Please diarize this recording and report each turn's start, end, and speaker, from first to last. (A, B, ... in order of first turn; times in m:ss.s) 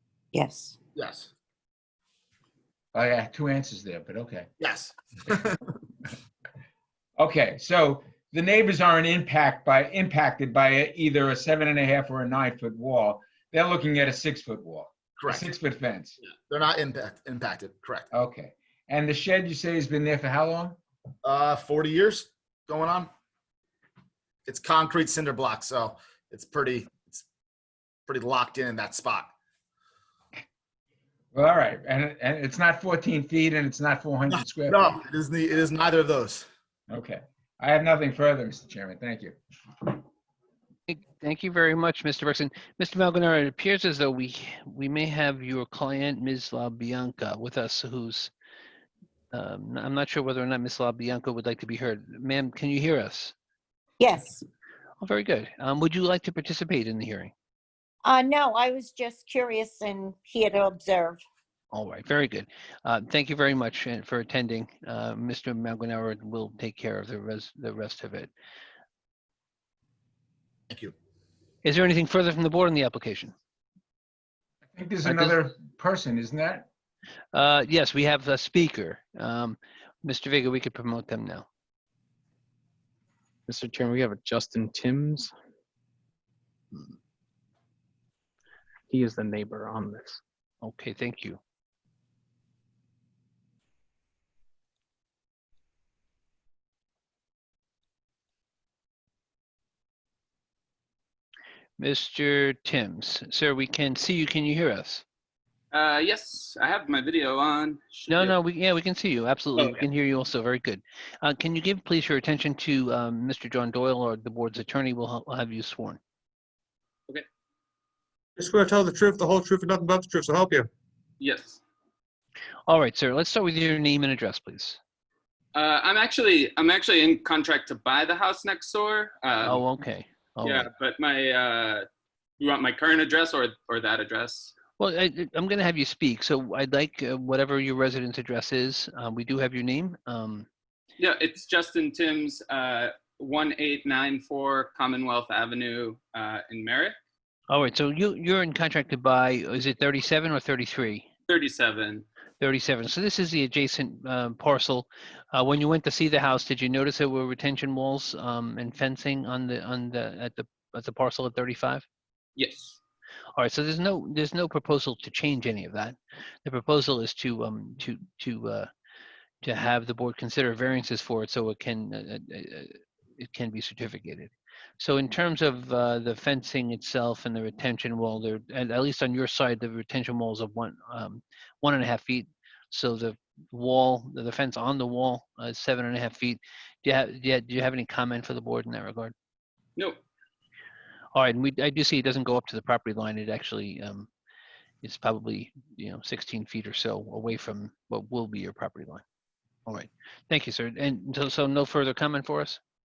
0:00.3-0:00.7 A
0:01.0-0:01.3 B
0:02.9-0:04.5 C
0:04.6-0:05.6 B
0:07.2-0:16.2 C
0:15.2-0:15.4 B
0:16.2-0:18.1 B
0:18.1-0:20.8 C
0:21.2-0:23.1 B
0:24.4-0:27.2 B
0:28.1-0:29.3 B
0:31.3-0:35.0 C
0:34.3-0:36.4 B
0:36.9-0:39.4 C
0:40.9-0:48.3 D
0:49.3-0:53.3 D
0:54.0-0:54.4 A
0:55.0-0:57.3 D
0:58.0-1:01.2 A
1:01.7-1:08.3 D
1:11.6-1:13.3 D
1:14.7-1:16.7 C
1:15.0-1:15.4 D
1:17.3-1:21.5 D
1:23.5-1:25.3 E
1:28.9-1:30.2 E
1:30.6-1:31.4 D
1:41.8-1:45.0 D
1:45.7-1:48.4 F
1:48.1-1:56.0 D
1:49.6-1:49.8 F
1:58.4-2:00.6 G
2:01.2-2:01.6 F
2:02.6-2:04.8 D
2:05.5-2:09.6 F
2:09.4-2:10.7 D
2:10.4-2:11.8 F
2:12.4-2:14.5 F
2:14.8-2:20.5 D
2:21.0-2:27.0 F
2:27.5-2:31.1 D
2:31.3-2:32.0 F
2:32.4-2:41.8 D
2:42.4-2:42.8 F
2:43.4-2:48.7 D
2:49.4-3:09.1 D
3:11.1-3:14.1 D
3:14.8-3:19.0 D
3:19.6-3:22.6 D